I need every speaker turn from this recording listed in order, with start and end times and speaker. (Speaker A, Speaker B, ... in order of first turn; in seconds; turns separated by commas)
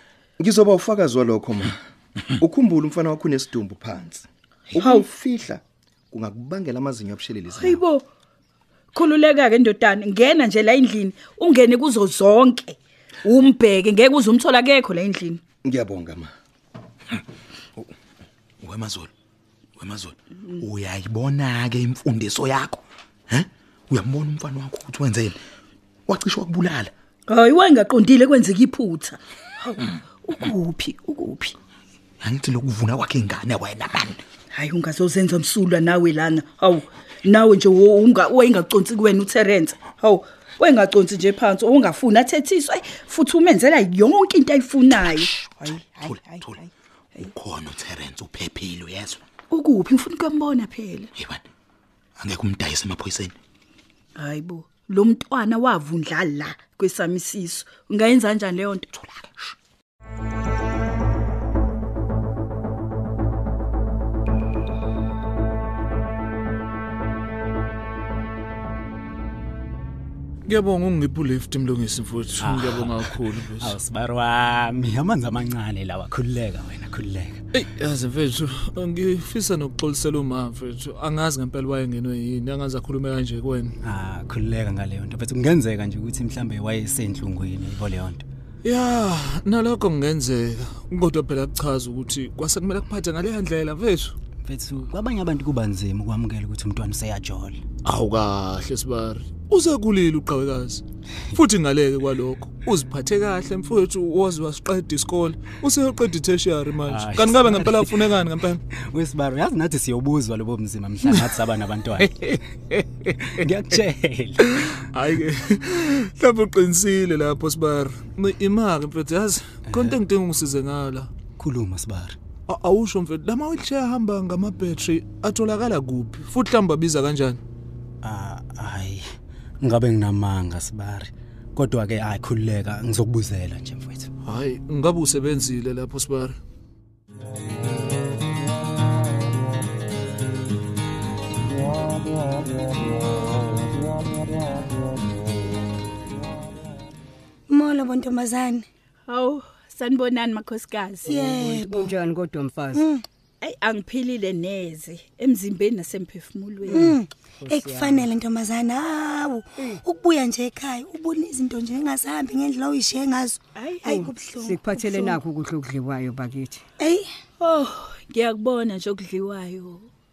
Speaker A: 0.4-1.8, Speaker A: 2.4-7.8, Speaker B: 4.8-5.1, Speaker B: 7.6-8.1, Speaker B: 8.9-15.4, Speaker A: 15.6-16.3, Speaker C: 18.6-19.1, Speaker C: 19.8-25.4, Speaker C: 26.1-26.9, Speaker B: 27.3-31.6, Speaker C: 32.2-34.2, Speaker B: 34.5-47.3, Speaker C: 45.5-46.6, Speaker C: 47.2-49.2, Speaker B: 49.5-51.1, Speaker C: 51.2-51.4, Speaker C: 52.2-53.4, Speaker B: 54.2-58.9, Speaker C: 58.9-59.5, Speaker D: 70.5-73.8, Speaker E: 72.4-77.4, Speaker D: 77.5-83.8, Speaker E: 83.8-88.2, Speaker D: 88.6-94.1, Speaker E: 94.4-97.6, Speaker D: 97.8-108.6, Speaker E: 106.8-114.8, Speaker D: 114.9-121.1, Speaker E: 119.7-120.0, Speaker E: 121.4-122.2, Speaker D: 122.5-127.4, Speaker E: 128.0-129.1, Speaker E: 129.6-134.1, Speaker D: 134.2-136.4, Speaker F: 147.5-148.7, Speaker B: 149.1-151.2, Speaker F: 151.1-151.9, Speaker G: 151.3-152.8, Speaker F: 152.7-153.0, Speaker B: 153.4-157.0, Speaker G: 156.7-158.1, Speaker F: 156.7-165.2, Speaker B: 163.6-164.0, Speaker G: 164.0-166.6, Speaker F: 166.8-167.1, Speaker B: 167.4-169.9